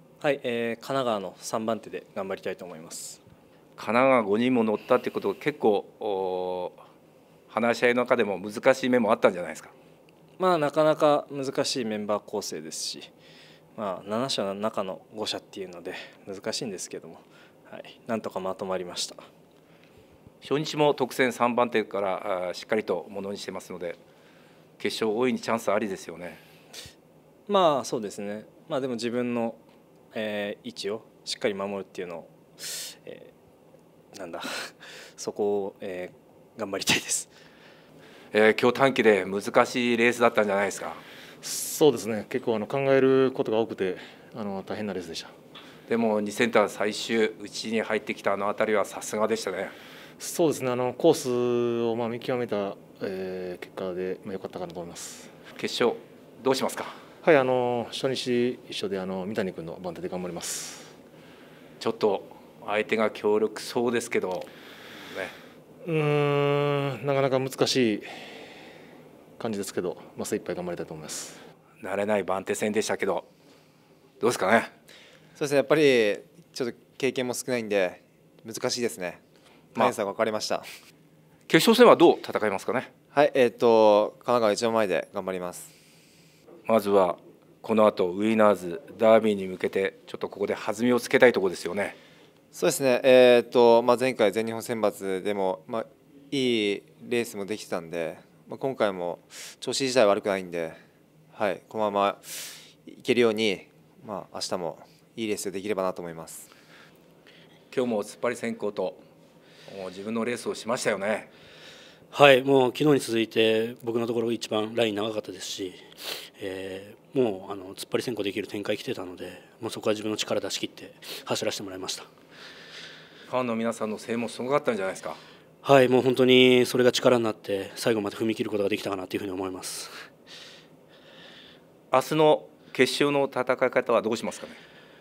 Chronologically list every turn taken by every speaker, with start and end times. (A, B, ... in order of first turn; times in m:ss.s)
0:00.2-0:03.2 A
0:03.8-0:06.8 B
0:07.5-0:09.7 B
0:10.4-0:13.1 A
0:13.8-0:19.2 A
0:20.4-0:24.0 B
0:24.8-0:26.4 B
0:27.5-0:29.6 A
0:30.1-0:33.3 A
0:34.1-0:37.3 A
0:38.3-0:41.0 B
0:41.4-0:45.3 C
0:45.9-0:49.8 B
0:50.2-0:55.3 C
0:55.6-0:56.9 B
0:57.2-1:00.9 C
1:01.8-1:04.5 B
1:05.1-1:05.3 B
1:05.8-1:08.1 C
1:09.4-1:11.4 C
1:11.8-1:13.3 B
1:14.2-1:14.7 B
1:15.4-1:19.2 D
1:19.8-1:20.7 D
1:21.5-1:22.9 B
1:23.1-1:25.7 D
1:26.7-1:32.0 B
1:32.5-1:40.8 D
1:41.3-1:46.5 D
1:47.7-1:49.0 B
1:49.7-1:51.3 B
1:52.1-1:55.8 E
1:56.4-2:02.1 E
2:03.3-2:05.2 B
2:05.6-2:09.9 E
2:11.9-2:14.6 B